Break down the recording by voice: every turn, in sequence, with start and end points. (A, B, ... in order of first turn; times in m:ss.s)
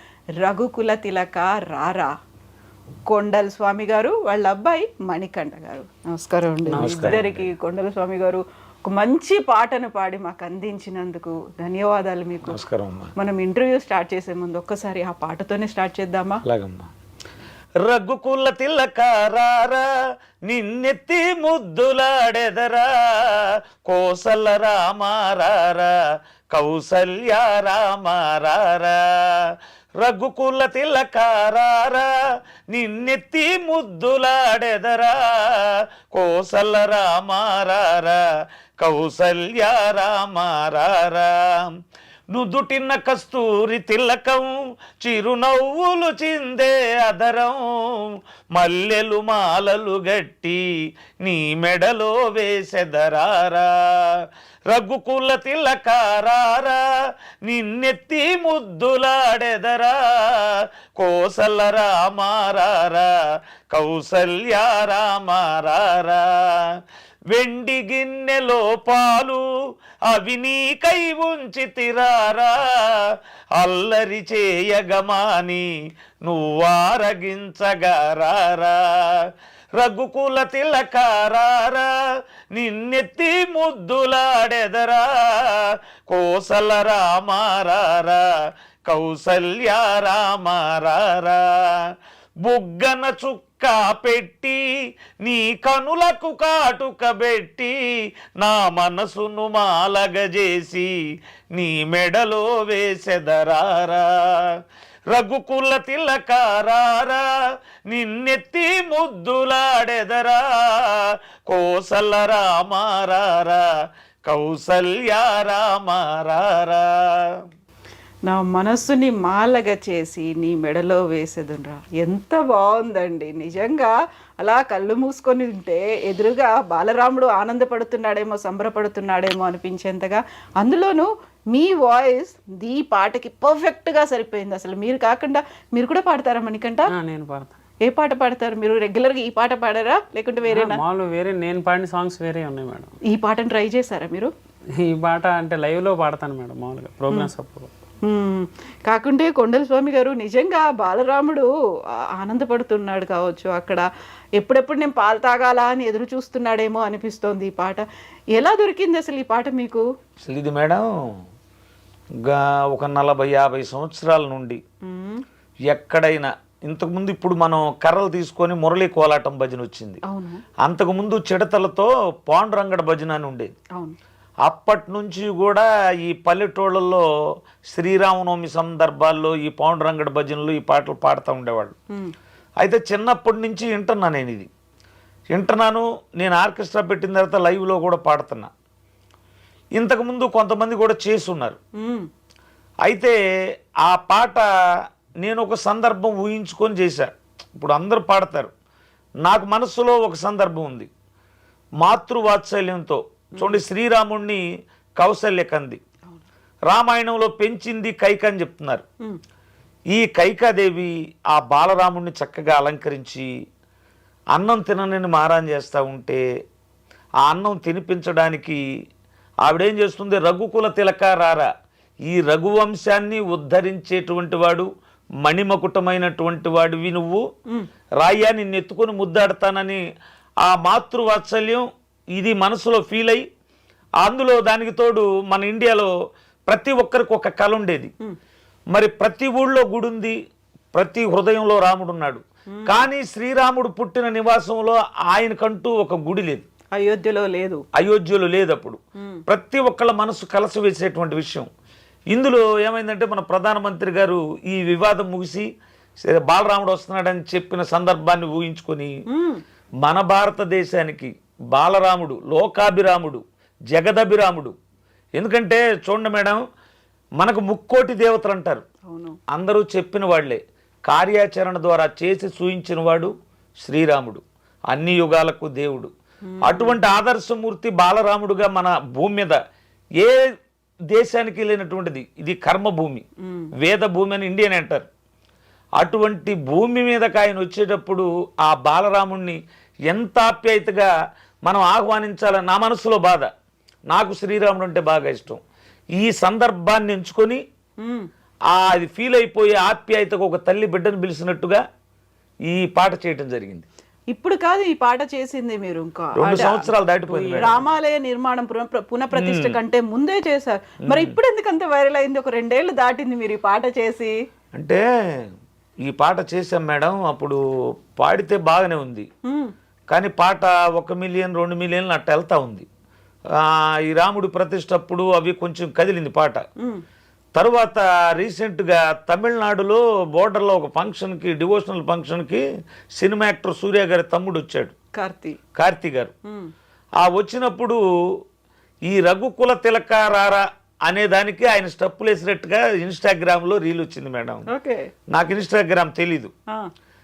0:00.4-0:02.1 A
0:03.1-0:12.6 A
0:06.7-0:07.2 B
0:06.8-0:07.5 C
0:12.5-0:13.1 C
0:13.2-0:16.4 A
0:16.4-0:16.9 C
0:17.8-0:19.9 C
0:20.5-0:26.0 C
0:26.5-0:32.1 C
0:32.7-0:38.2 C
0:38.8-0:41.7 C
0:42.3-0:50.6 C
0:51.2-0:56.8 C
0:57.4-1:03.1 C
1:03.7-1:06.7 C
1:07.3-1:09.4 C
1:10.1-1:15.7 C
1:16.2-1:21.9 C
1:22.5-1:28.3 C
1:28.9-1:31.9 C
1:32.4-1:34.6 C
1:35.2-1:37.8 C
1:38.4-1:40.9 C
1:41.5-1:44.5 C
1:45.1-1:47.3 C
1:47.9-1:53.7 C
1:54.2-1:57.4 C
1:58.3-2:16.9 A
2:16.9-2:17.5 B
2:17.8-2:20.8 A
2:20.5-2:22.9 B
2:23.1-2:24.3 A
2:24.8-2:27.7 B
2:28.0-2:31.5 A
2:32.2-2:33.8 A
2:34.4-2:37.8 A
2:38.4-2:39.8 A
2:40.2-2:40.9 C
2:42.2-2:44.6 C
2:44.9-2:45.2 A
2:45.7-2:50.0 C
2:50.1-2:50.4 A
2:50.6-2:53.5 C
2:54.4-2:57.0 C
2:57.7-3:01.8 C
3:02.6-3:04.5 C
3:05.3-3:08.5 C
3:09.8-3:11.6 C
3:11.8-3:12.1 A
3:12.8-3:13.2 C
3:13.8-3:14.4 C
3:15.2-3:18.5 C
3:19.2-3:20.9 C
3:21.8-3:24.4 C
3:25.0-3:25.8 C
3:26.7-3:28.8 C
3:29.9-3:33.3 C
3:34.3-3:36.2 C
3:37.2-3:38.6 C
3:39.4-3:41.5 C
3:42.0-3:44.7 C
3:45.2-3:47.2 C
3:48.0-3:49.8 C
3:50.4-3:53.2 C
3:54.0-3:55.9 C
3:56.5-3:57.9 C
3:58.7-4:00.2 C
4:00.7-4:06.5 C
4:02.6-4:02.9 A
4:06.8-4:07.6 A
4:07.8-4:11.5 C
4:12.1-4:15.5 C
4:16.0-4:18.9 C
4:19.1-4:19.4 A
4:19.8-4:24.6 C
4:25.2-4:26.4 C
4:27.2-4:28.6 C
4:28.9-4:29.2 A
4:29.3-4:35.9 C
4:36.3-4:36.8 A
4:36.4-4:39.4 C
4:40.9-4:43.0 C
4:43.2-4:43.5 A
4:43.6-4:44.9 C
4:45.8-4:50.9 C
4:51.4-4:53.3 C
4:53.9-4:55.4 C
4:56.0-4:57.4 C
4:58.5-5:01.6 C
5:02.5-5:03.7 C
5:04.1-5:06.7 A
5:06.2-5:07.6 C
5:07.1-5:07.4 B
5:07.3-5:14.1 A
5:09.2-5:09.6 C
5:10.8-5:11.2 C
5:14.5-5:15.3 C
5:15.8-5:17.4 C
5:18.0-5:19.1 C
5:19.3-5:19.5 A
5:19.9-5:22.7 C
5:23.4-5:26.4 C
5:27.4-5:32.4 C
5:33.0-5:34.7 C
5:35.0-5:35.4 A
5:35.6-5:36.1 C
5:37.0-5:37.8 C
5:38.9-5:44.4 C
5:44.5-5:44.8 A
5:45.1-5:46.3 C